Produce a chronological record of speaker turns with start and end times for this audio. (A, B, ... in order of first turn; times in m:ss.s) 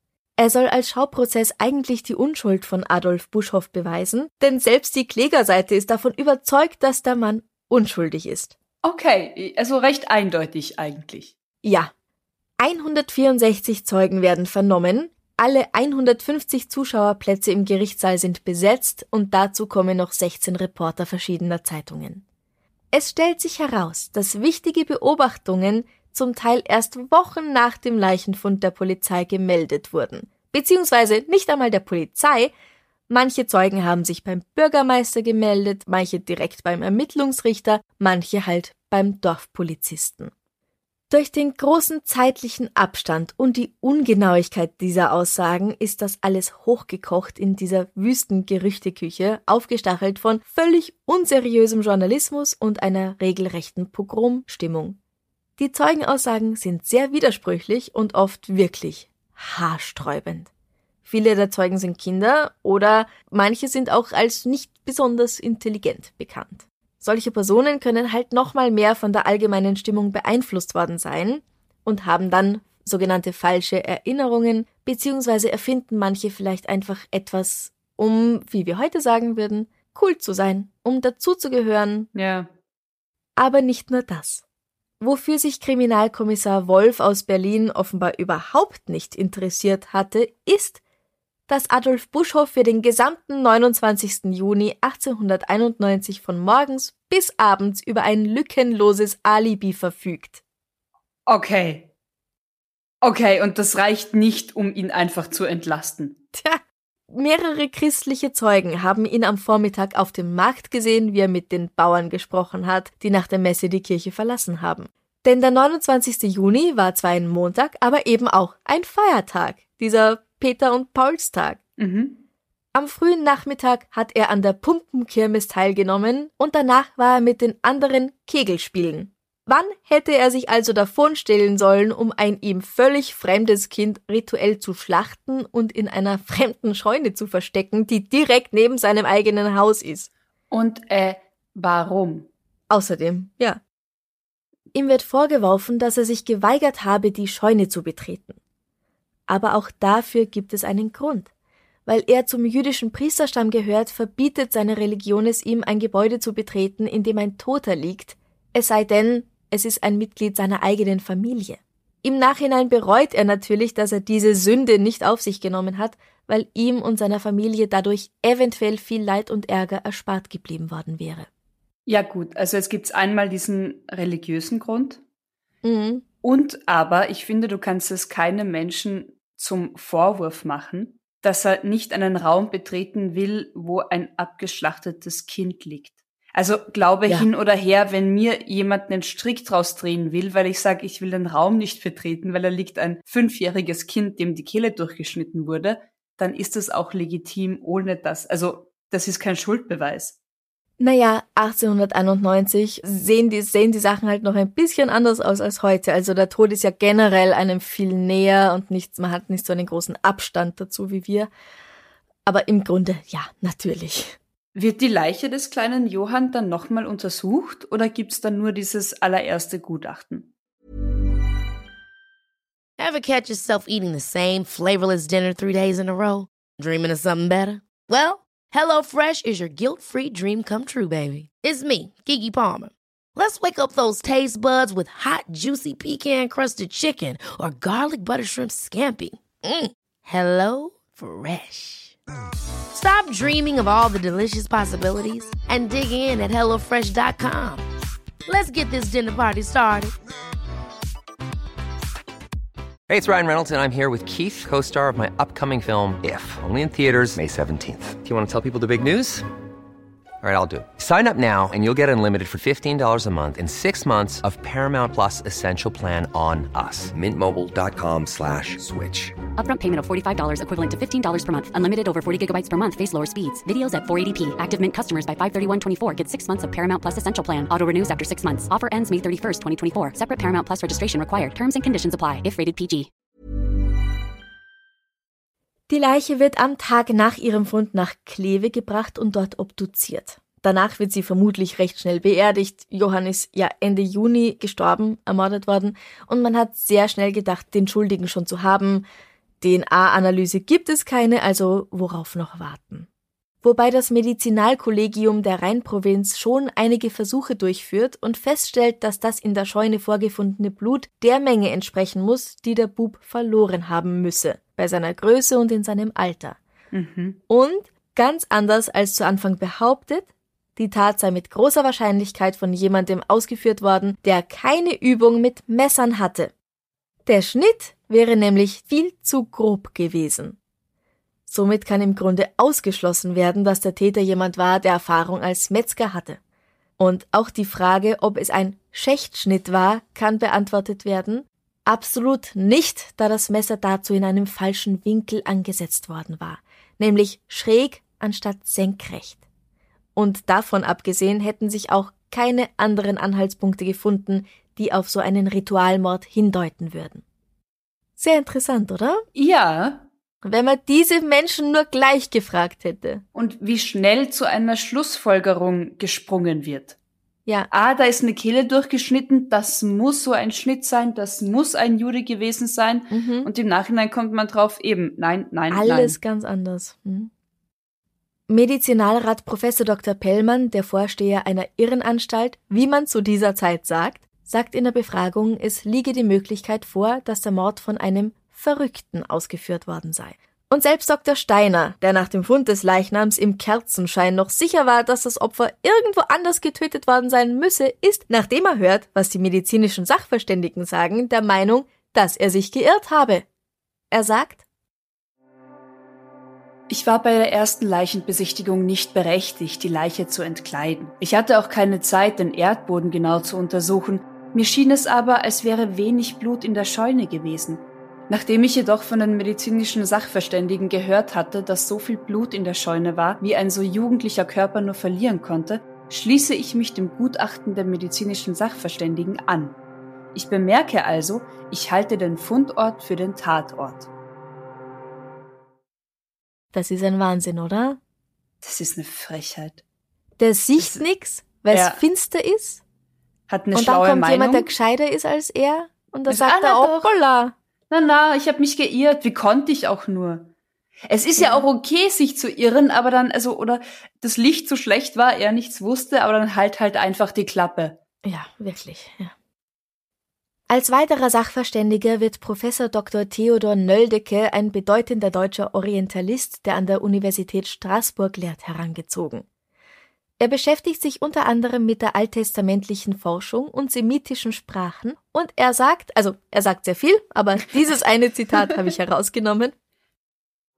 0:00.4-0:08.5 A
0:08.8-0:11.3 B
0:11.6-0:11.9 A
0:12.6-0:22.2 A
0:22.9-0:32.5 A
0:33.1-0:40.3 A
0:41.1-0:55.0 A
0:55.6-1:00.5 A
1:01.0-1:22.1 A
1:22.1-1:22.5 B
1:23.4-1:24.4 A
1:25.0-1:30.8 A
1:31.5-1:40.4 A
1:41.3-1:41.9 B
1:43.0-1:46.2 B
1:46.3-2:01.6 A
2:01.8-2:02.2 B
2:02.7-2:20.1 A
2:20.5-2:22.3 B
2:22.7-2:23.6 A
2:24.7-2:28.4 A
2:29.3-2:31.3 A
2:31.8-2:51.3 A
2:51.9-2:55.0 B
2:55.6-2:56.0 A
2:56.2-3:20.2 B
3:20.8-3:31.3 A
3:32.2-3:34.2 A
3:34.5-3:40.3 B
3:42.8-4:02.0 C
4:02.7-4:07.6 C
4:08.2-4:09.9 C
4:12.9-4:19.2 D
4:20.2-4:29.1 D
4:29.4-4:42.9 E
4:45.7-4:58.9 A
4:59.4-5:02.9 A
5:03.4-5:16.4 A
5:16.7-5:17.2 B
5:17.3-5:26.3 A
5:27.0-5:30.4 A
5:31.3-5:36.2 A
5:36.8-5:49.2 A
5:50.0-5:57.0 A
5:58.0-5:59.0 A
5:59.1-5:59.9 B
6:00.2-6:03.0 A
6:03.1-6:06.8 B
6:07.5-6:16.0 B
6:12.9-6:13.3 A
6:15.5-6:17.1 A
6:18.3-6:43.2 A
6:43.9-6:44.4 A
6:46.7-7:09.6 B
7:10.1-7:13.9 B
7:16.5-7:17.8 A
7:18.4-7:19.6 B
7:20.2-7:22.6 A
7:20.6-7:20.8 B
7:21.5-7:21.8 B
7:23.3-7:24.5 B
7:23.5-7:27.3 A
7:26.1-7:26.9 B
7:27.7-7:30.3 B
7:30.9-7:37.8 B
7:31.2-7:31.4 A
7:38.0-7:39.1 A
7:40.5-7:49.2 A
7:50.2-7:59.5 A